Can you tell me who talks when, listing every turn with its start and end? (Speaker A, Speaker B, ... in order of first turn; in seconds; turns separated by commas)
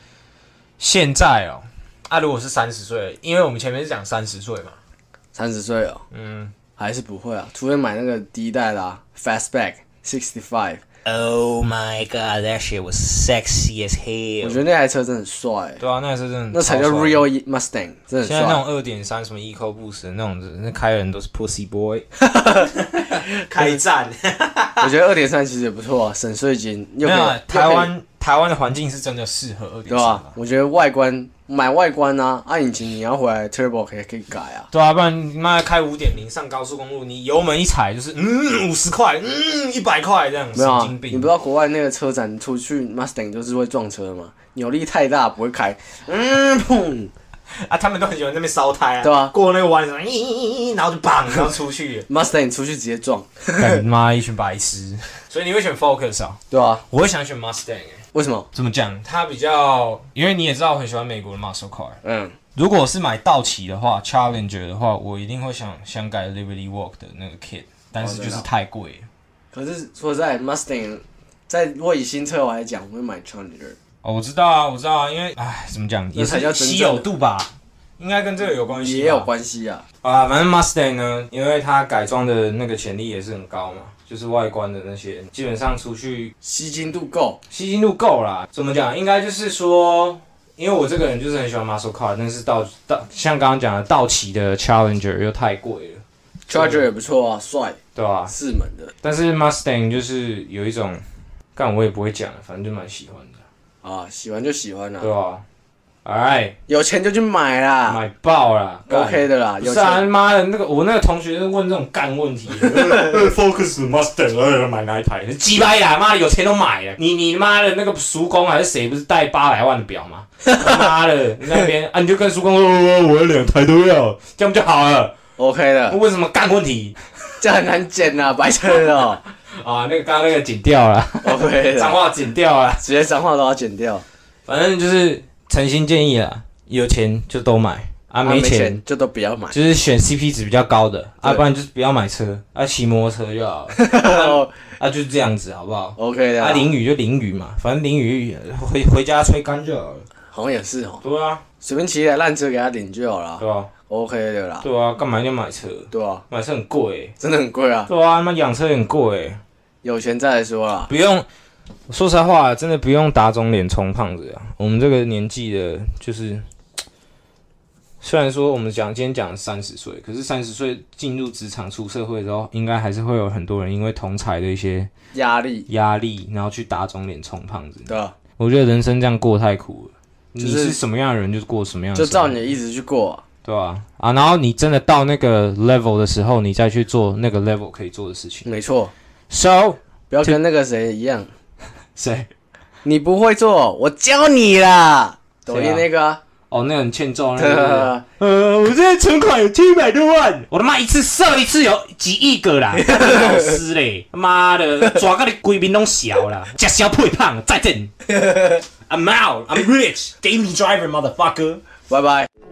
Speaker A: 0.8-4.8, Speaker B: 5.3-6.0, Speaker A: 6.1-6.5, Speaker B: 6.8-10.8, Speaker A: 11.0-14.6, Speaker B: 14.4-15.8, Speaker A: 15.8-17.2, Speaker B: 16.5-18.6, Speaker A: 18.2-22.1, Speaker B: 22.2-22.7, Speaker A: 22.6-24.9, Speaker B: 24.8-27.9, Speaker A: 27.0-30.3, Speaker B: 29.9-34.7, Speaker A: 34.7-41.3, Speaker B: 40.5-47.1, Speaker A: 47.5-52.1, Speaker B: 49.0-49.3, Speaker B: 52.1-53.8, Speaker A: 53.6-62.0, Speaker B: 56.5-56.8, Speaker B: 58.1-58.5, Speaker B: 62.0-62.4, Speaker A: 62.5-69.1, Speaker B: 68.0-68.5, Speaker B: 69.5-73.8, Speaker A: 74.0-79.3, Speaker B: 76.2-77.1, Speaker B: 78.7-79.8, Speaker A: 80.0-86.3, Speaker B: 86.4-87.4, Speaker A: 87.5-96.9, Speaker B: 96.5-98.9, Speaker A: 97.9-98.3, Speaker A: 99.0-101.0, Speaker A: 101.5-103.4, Speaker B: 103.8-105.1, Speaker A: 105.0-105.4, Speaker A: 106.0-106.6, Speaker B: 106.7-108.0, Speaker A: 107.8-125.1, Speaker B: 108.9-110.1, Speaker B: 120.5-120.9, Speaker B: 125.4-126.0, Speaker A: 125.9-127.0, Speaker B: 127.4-129.2, Speaker A: 129.5-132.8, Speaker B: 131.2-132.0, Speaker B: 132.8-134.0, Speaker A: 134.4-138.8, Speaker B: 138.2-139.6, Speaker A: 139.5-150.1, Speaker B: 143.8-144.5, Speaker B: 146.0-146.7, Speaker B: 150.3-151.0, Speaker A: 151.0-151.4, Speaker B: 151.6-154.7, Speaker A: 153.4-153.7, Speaker A: 154.6-157.1, Speaker B: 155.9-156.2, Speaker B: 157.2-157.9, Speaker A: 157.9-159.4, Speaker B: 159.8-160.9, Speaker A: 160.9-161.3, Speaker A: 161.9-166.4, Speaker A: 168.0-174.9, Speaker B: 175.1-175.7, Speaker A: 175.7-182.4, Speaker B: 177.9-178.1, Speaker B: 180.4-180.8, Speaker B: 181.9-183.2, Speaker A: 183.4-188.5, Speaker B: 188.4-188.9, Speaker A: 189.3-190.4, Speaker B: 190.1-191.3, Speaker A: 191.9-192.3, Speaker B: 192.8-196.2, Speaker A: 195.5-195.8, Speaker A: 196.5-207.9, Speaker B: 197.4-198.0, Speaker B: 202.8-203.5, Speaker B: 208.1-208.6, Speaker A: 208.8-211.6, Speaker B: 211.9-212.3